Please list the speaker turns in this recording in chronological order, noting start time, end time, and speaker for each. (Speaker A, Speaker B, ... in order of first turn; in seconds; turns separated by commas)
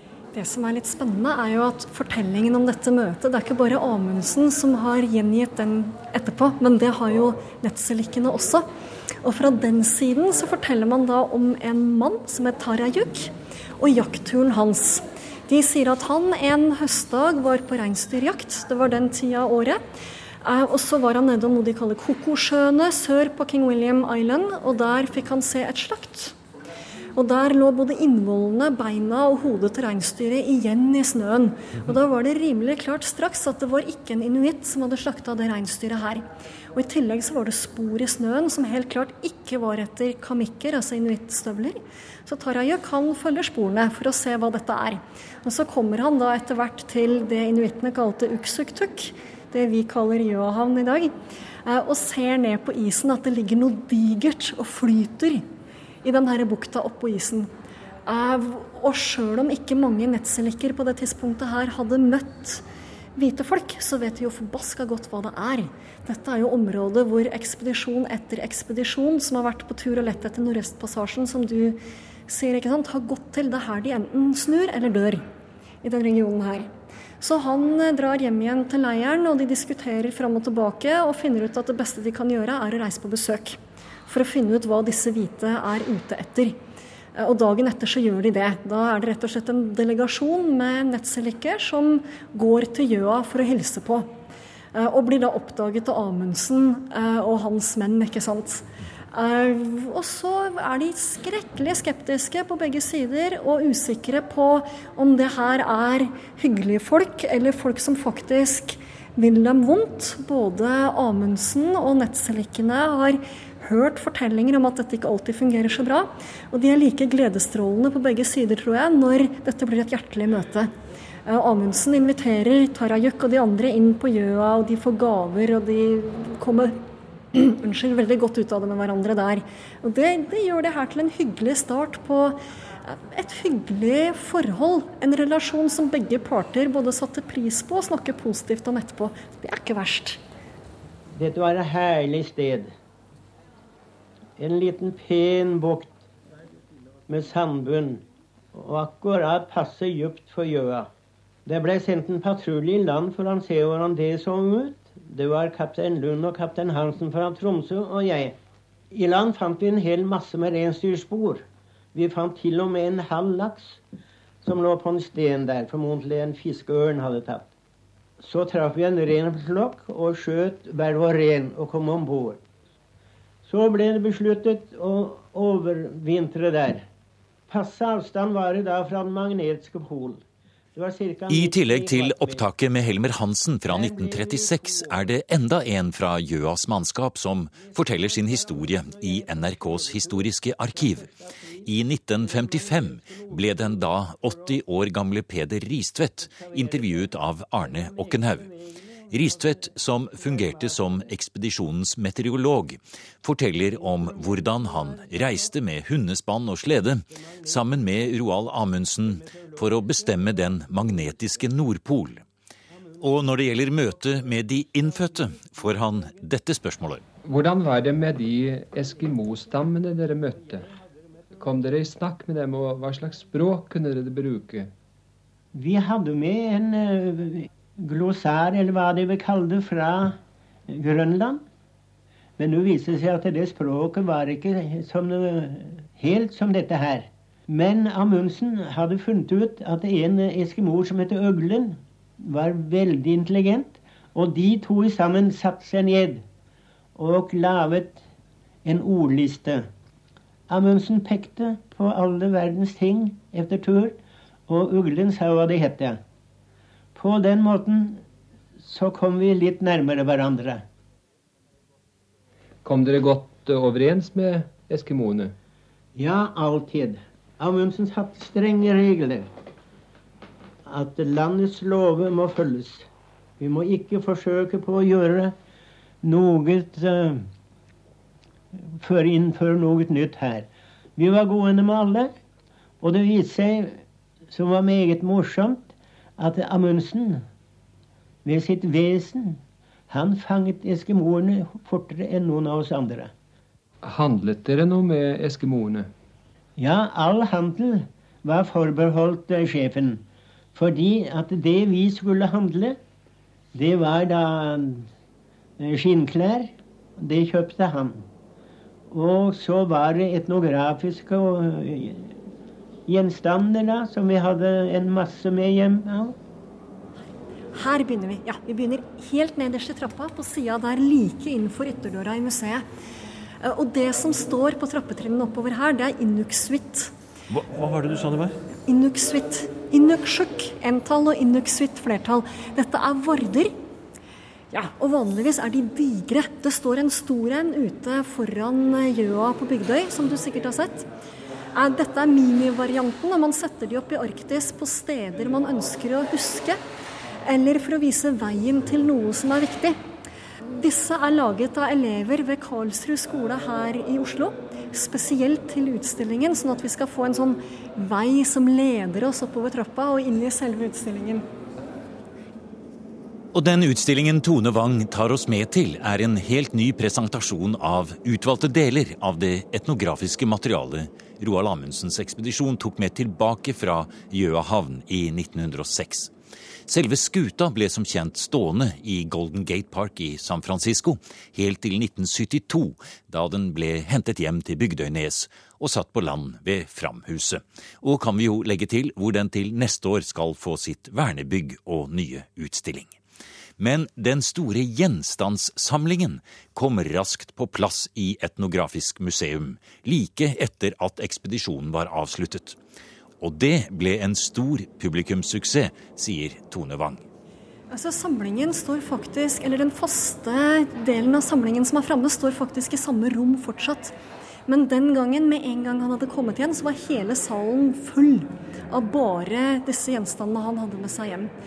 Speaker A: 0.3-8.6, Speaker A: 9.2-19.8, Speaker A: 20.4-26.4, Speaker A: 27.1-51.1, Speaker A: 51.6-55.4, Speaker A: 56.0-57.5, Speaker A: 58.1-62.6, Speaker A: 63.1-75.2, Speaker A: 75.8-76.7, Speaker A: 77.2-86.6, Speaker A: 87.1-94.1, Speaker A: 94.7-120.7, Speaker A: 121.2-126.8, Speaker A: 127.3-140.2, Speaker B: 141.2-142.7, Speaker B: 144.4-145.9, Speaker B: 147.1-150.9, Speaker B: 151.4-158.3, Speaker B: 158.9-161.4, Speaker B: 161.9-163.8, Speaker B: 164.4-167.5, Speaker B: 168.2-172.4, Speaker B: 173.4-176.8, Speaker B: 177.5-180.2, Speaker B: 180.7-182.4, Speaker C: 181.3-191.1, Speaker B: 183.7-184.1, Speaker C: 191.6-198.5, Speaker C: 199.1-212.2, Speaker C: 213.0-217.0, Speaker D: 217.2-220.7, Speaker D: 221.4-224.7, Speaker B: 225.5-230.2, Speaker B: 230.7-231.4, Speaker B: 232.4-246.2, Speaker B: 246.9-248.0, Speaker B: 248.6-249.6, Speaker B: 250.5-254.0, Speaker B: 254.5-256.0, Speaker B: 256.9-258.0, Speaker B: 258.6-260.6, Speaker D: 262.6-265.3, Speaker B: 265.9-269.3, Speaker B: 270.6-272.9, Speaker B: 273.4-275.3, Speaker B: 276.0-277.2, Speaker B: 278.8-282.1, Speaker B: 282.8-283.7, Speaker B: 284.3-287.2, Speaker B: 288.2-293.1, Speaker D: 293.8-295.9, Speaker B: 296.6-300.0, Speaker B: 300.5-302.8, Speaker B: 303.5-304.9, Speaker B: 305.6-308.0, Speaker B: 308.9-312.1, Speaker B: 312.9-316.1, Speaker A: 317.5-322.6, Speaker A: 323.4-326.9, Speaker C: 327.3-328.4, Speaker A: 328.7-333.5, Speaker A: 334.5-340.9, Speaker A: 341.5-346.6, Speaker A: 347.2-349.8, Speaker A: 350.6-361.2, Speaker C: 363.3-376.1, Speaker C: 376.7-392.9, Speaker C: 393.6-402.6, Speaker C: 403.2-407.0, Speaker A: 407.7-413.9, Speaker A: 414.5-421.3